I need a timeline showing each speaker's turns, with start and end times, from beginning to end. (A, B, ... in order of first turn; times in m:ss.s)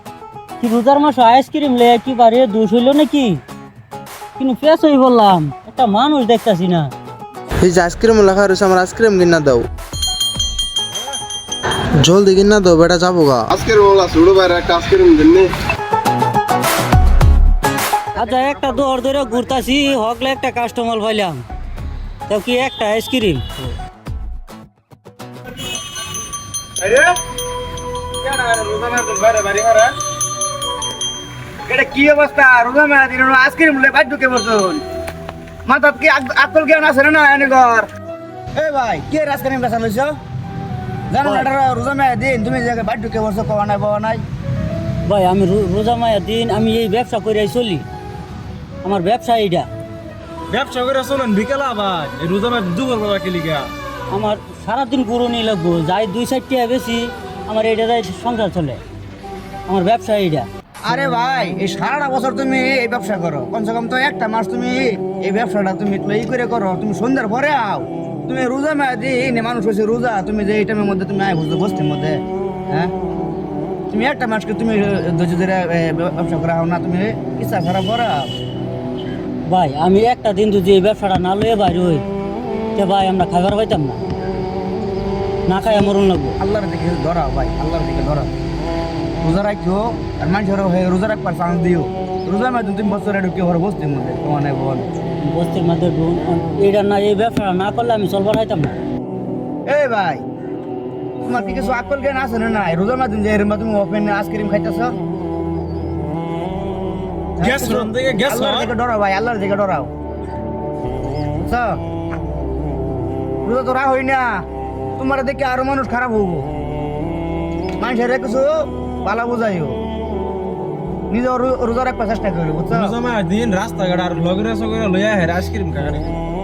0:00.6-0:03.4 A
0:04.4-0:06.9 A
0:07.6-0:09.4 B
0:07.6-0:09.6 C
0:12.0-0:14.0 C
0:12.1-0:15.5 B
0:18.2-0:21.4 A
0:22.3-0:23.4 A
0:26.8-0:27.1 D
0:28.2-0:30.0 D
0:31.7-0:34.8 E
0:35.7-0:37.9 E
0:38.6-0:40.2 E
0:41.1-0:44.2 E
0:45.0-0:47.8 A
0:48.8-0:49.7 A
0:50.5-0:53.7 D
0:54.1-0:58.8 A
0:59.7-1:00.5 A
1:00.8-1:12.9 E
1:13.9-1:18.3 E
1:19.5-1:22.0 A
1:22.8-1:24.0 A
1:25.5-1:26.4 A
1:26.4-1:28.3 E
1:29.2-1:34.9 E
1:35.2-1:38.8 A
1:39.7-1:40.2 E
1:41.2-1:44.9 E
1:47.4-1:49.9 E
1:47.4-1:48.7 D
1:51.4-1:51.8 E
1:53.4-1:54.4 E
1:55.0-1:56.5 E
1:57.8-1:59.8 E
2:01.1-2:03.0 E
2:02.7-2:06.0 D